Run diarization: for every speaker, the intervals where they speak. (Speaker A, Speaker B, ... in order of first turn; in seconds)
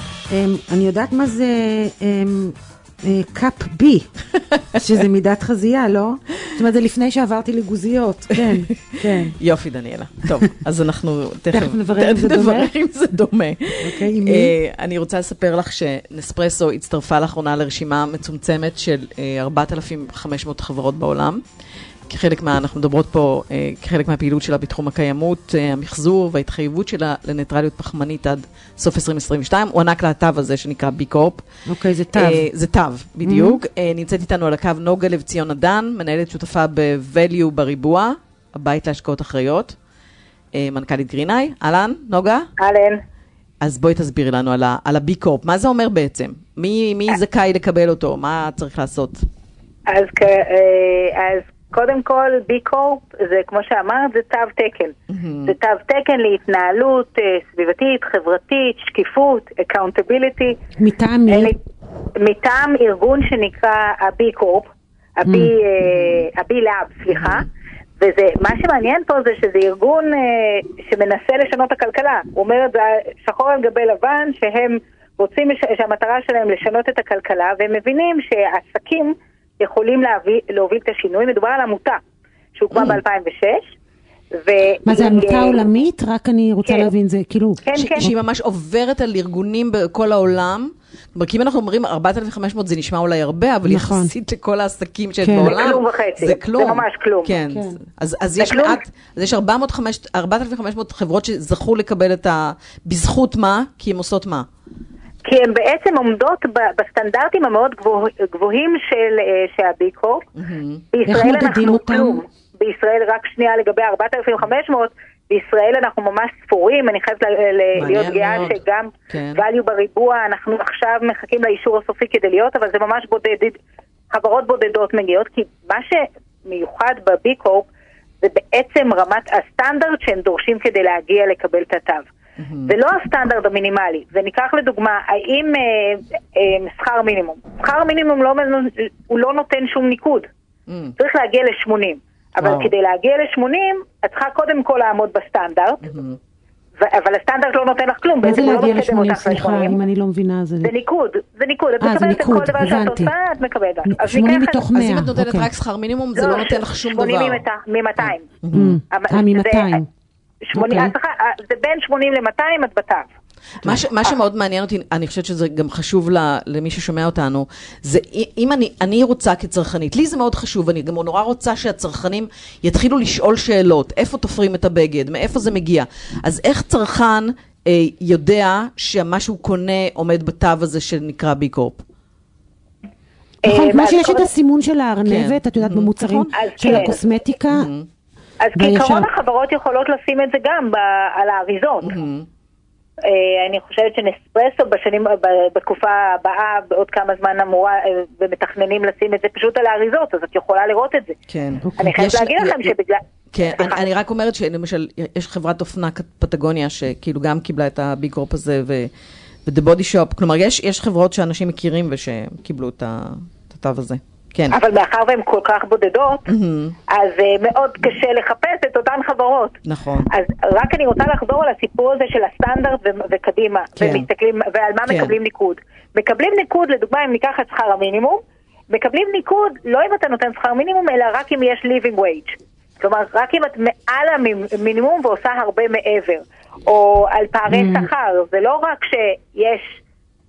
Speaker A: 0.3-4.1, 4.7-9.4, 11.5-12.7, 13.8-14.6, 31.7-32.5, 33.2-33.6, 60.8-61.5, 65.3-65.5, 84.8-88.1, 93.7-94.1, 95.2-95.6, 97.5-97.8, 111.0-112.2, 148.2-150.7, 151.8-153.1, 153.8-155.5, 158.5-159.9, 160.5-160.9, 183.4-187.7, 188.6-189.1, 201.7-201.9, 237.5-237.9
Speaker B: 8.3-21.4, 22.1-31.4, 32.1-39.8, 40.5-42.5, 43.6-49.2, 55.1-55.5, 67.1-67.4, 82.7-83.0, 87.8-104.5, 110.4-110.9, 117.8-118.6, 119.1-119.4, 132.4-132.7, 140.7-140.9, 142.4-142.7, 145.8-146.2, 154.7-157.4, 158.0-158.8, 163.6-181.8, 185.1-186.9, 187.5-187.9, 191.8-192.3, 201.3-202.7, 203.3-208.9, 209.5-214.6, 216.3-216.8, 219.7-220.1, 223.8-224.1, 224.9-225.2
Speaker C: 42.6-43.0, 49.9-54.9, 55.5-60.5, 61.3-61.6, 62.2-67.5, 68.0-82.0, 82.5-83.8, 84.3-85.7, 86.7-86.9, 87.7-88.1, 95.4-97.3, 98.4-98.8, 105.2-110.3, 110.9-123.6, 124.1-127.7, 128.2-132.1, 132.7-140.3, 141.0-145.8, 146.8-149.8, 150.6-154.7, 156.2-158.3, 158.9-159.8, 160.4-163.1, 183.4-184.3, 186.3-187.0, 188.4-191.9, 193.0-201.2, 201.8-203.9, 214.5-216.3, 216.9-219.6, 220.1-228.2, 228.7-239.8